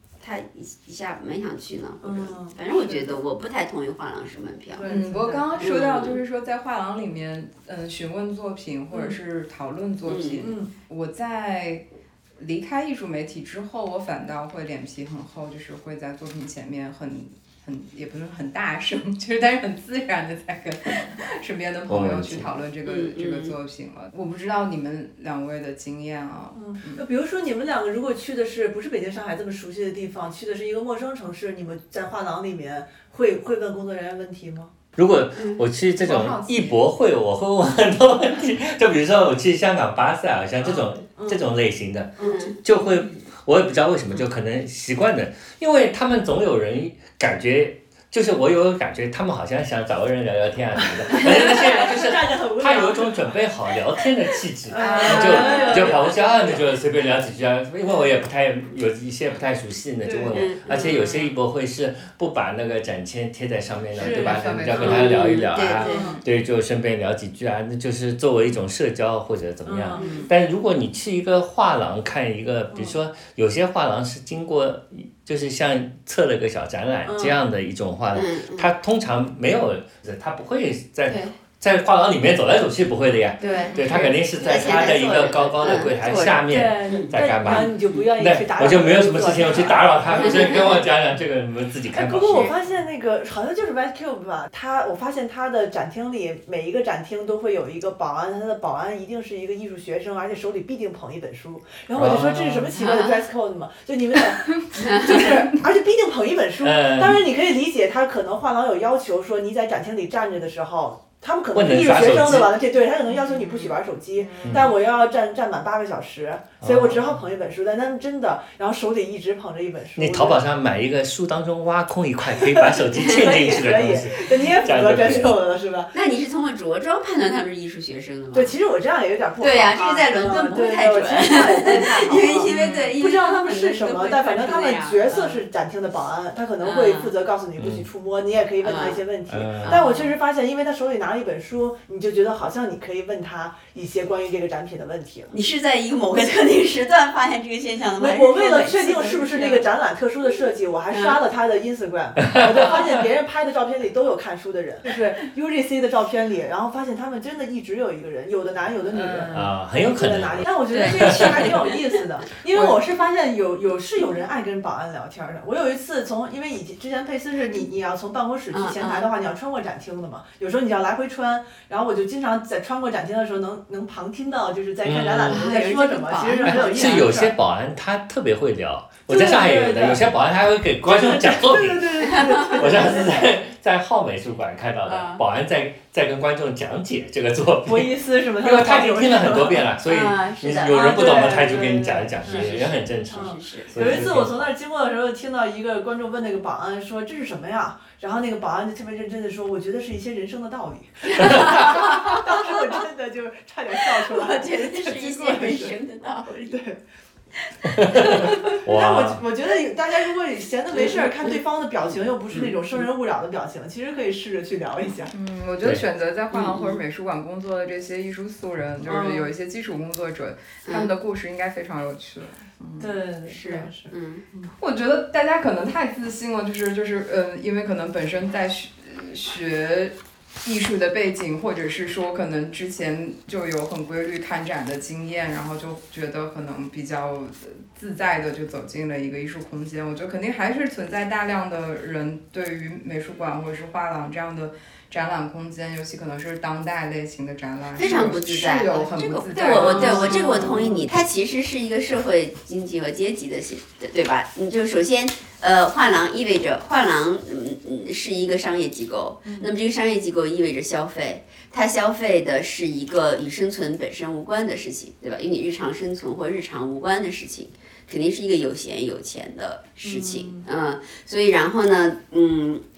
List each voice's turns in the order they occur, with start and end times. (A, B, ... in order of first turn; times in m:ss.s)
0:00.2-0:04.8 A
0:02.0-0:03.2 B
0:04.7-0:05.7 B
0:04.8-0:11.9 C
0:05.6-0:06.2 A
0:08.9-0:09.2 B
0:10.1-0:10.5 A
0:10.4-0:10.7 B
0:12.4-0:27.0 C
0:21.9-0:22.5 D
0:22.8-0:23.6 A
0:26.6-0:34.7 B
0:35.0-1:32.6 D
0:35.4-0:35.7 A
0:36.0-0:36.8 C
0:40.6-0:41.5 B
0:42.2-0:42.6 B
0:42.2-0:42.6 A
0:51.0-0:53.4 B
0:54.7-0:56.6 B
0:54.8-0:56.1 C
0:54.8-0:56.0 A
1:00.0-1:00.9 B
1:00.3-1:00.9 A
1:00.7-1:01.3 C
1:04.0-1:05.1 C
1:04.0-1:05.0 B
1:04.8-1:06.2 A
1:05.8-1:06.2 C
1:05.9-1:06.2 B
1:09.7-1:10.2 B
1:09.9-1:10.3 C
1:10.0-1:10.2 A
1:18.1-1:18.7 A
1:21.1-1:21.3 A
1:23.4-1:28.0 A
1:23.7-1:24.1 C
1:26.4-1:30.8 B
1:30.1-1:30.8 A
1:31.9-2:00.4 B
1:42.0-1:42.8 D
1:42.8-1:43.2 A
1:44.8-1:45.4 A
1:45.0-1:45.5 C
1:46.6-1:47.2 D
1:51.5-1:52.6 D
1:53.1-1:53.6 C
1:54.2-1:54.7 C
1:54.4-1:54.7 D
1:56.6-1:57.2 D
2:00.0-2:05.3 D
2:02.9-2:03.6 A
2:03.0-2:05.9 B
2:05.0-2:05.3 A
2:05.9-2:08.6 A
2:08.3-2:25.3 B
2:09.4-2:15.4 A
2:12.5-2:12.9 C
2:16.6-2:17.1 A
2:17.6-2:17.8 D
2:18.6-2:19.0 A
2:19.3-2:19.8 D
2:19.6-2:20.1 A
2:25.3-2:29.7 A
2:27.9-2:57.3 B
2:30.9-2:31.2 A
2:32.3-2:32.7 D
2:38.9-2:39.4 C
2:39.3-2:41.5 D
2:40.7-2:42.0 A
2:42.5-2:42.8 C
2:48.5-2:49.1 A
2:54.8-2:55.4 D
2:55.3-2:57.1 A
2:56.4-3:14.4 D
2:59.1-3:00.1 B
3:00.8-3:03.3 B
3:02.1-3:02.7 A
3:04.8-3:05.2 A
3:07.7-3:09.7 B
3:09.9-3:11.4 A
3:10.6-3:25.8 B
3:12.2-3:14.2 A
3:21.1-3:22.6 A
3:23.8-3:26.6 A
3:26.4-3:26.8 B
3:27.7-3:29.2 D
3:27.9-3:35.1 B
3:28.0-3:28.3 A
3:30.7-3:31.4 A
3:35.1-3:43.6 C
3:36.3-3:36.8 A
3:38.8-3:39.3 B
3:42.8-3:44.5 B
3:43.3-3:44.2 A
3:44.6-4:10.9 C
4:07.8-4:32.6 A
4:09.5-4:10.9 B
4:19.2-4:19.5 B
4:29.8-4:30.4 B